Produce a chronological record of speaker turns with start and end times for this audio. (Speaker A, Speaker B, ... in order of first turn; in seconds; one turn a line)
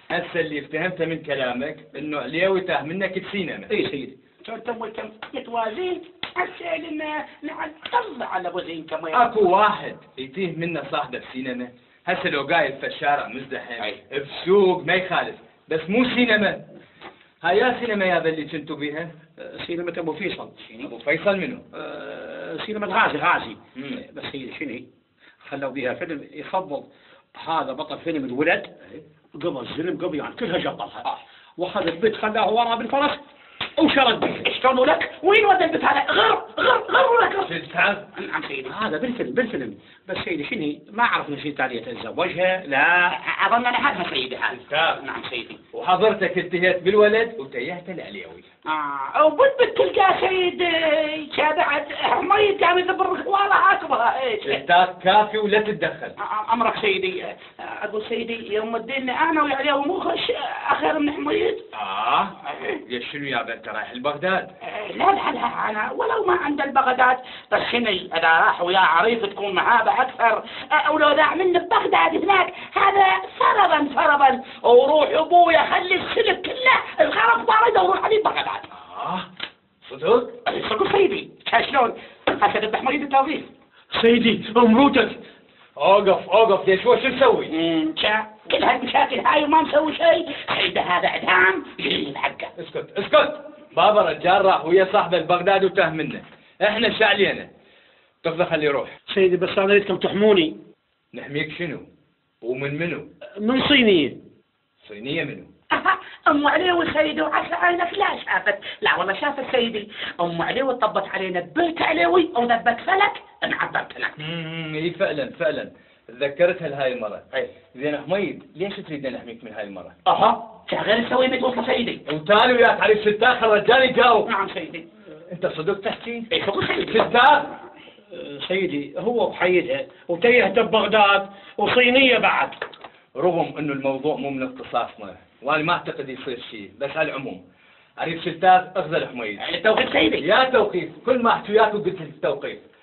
Speaker A: 0.1-3.7
Speaker B: 3.7-4.2
Speaker C: 4.4-9.4
Speaker A: 9.1-16.6
Speaker A: 17.4-19.1
Speaker B: 19.4-20.7
Speaker A: 20.8-21.6
Speaker B: 21.7-24.9
Speaker A: 23.8-24.0
Speaker B: 25.4-33.2
Speaker B: 33.8-34.5
Speaker C: 34.4-37.5
Speaker A: 37.4-38.1
Speaker C: 38.1-38.8
Speaker B: 38.6-43.1
Speaker C: 43.1-45.6
Speaker A: 44.5-45.0
Speaker A: 45.7-48.5
Speaker C: 48.7-54.6
Speaker A: 54.4-56.1
Speaker C: 56.2-61.6
Speaker A: 61.7-64.5
Speaker C: 62.5-62.8
Speaker C: 64.6-78.7
Speaker A: 78.7-79.3
Speaker A: 79.8-80.3
Speaker C: 80.5-83.5
Speaker B: 83.9-85.2
Speaker A: 85.8-87.5
Speaker C: 87.5-92.5
Speaker A: 92.6-97.5
Speaker A: 98.2-98.9
Speaker B: 99.1-100.6
Speaker A: 101.1-101.9
Speaker A: 102.4-103.1
Speaker B: 103.4-104.2
Speaker A: 104.8-105.5
Speaker C: 105.7-114.1
Speaker A: 114.2-119.9
Speaker C: 120.0-122.0
Speaker A: 122.1-124.3
Speaker C: 124.2-124.9
Speaker A: 125.3-126.3
Speaker C: 126.3-127.1
Speaker A: 126.9-127.5
Speaker B: 128.1-132.6
Speaker A: 133.2-137.4
Speaker A: 138.0-139.4
Speaker C: 139.4-140.2
Speaker A: 140.2-142.6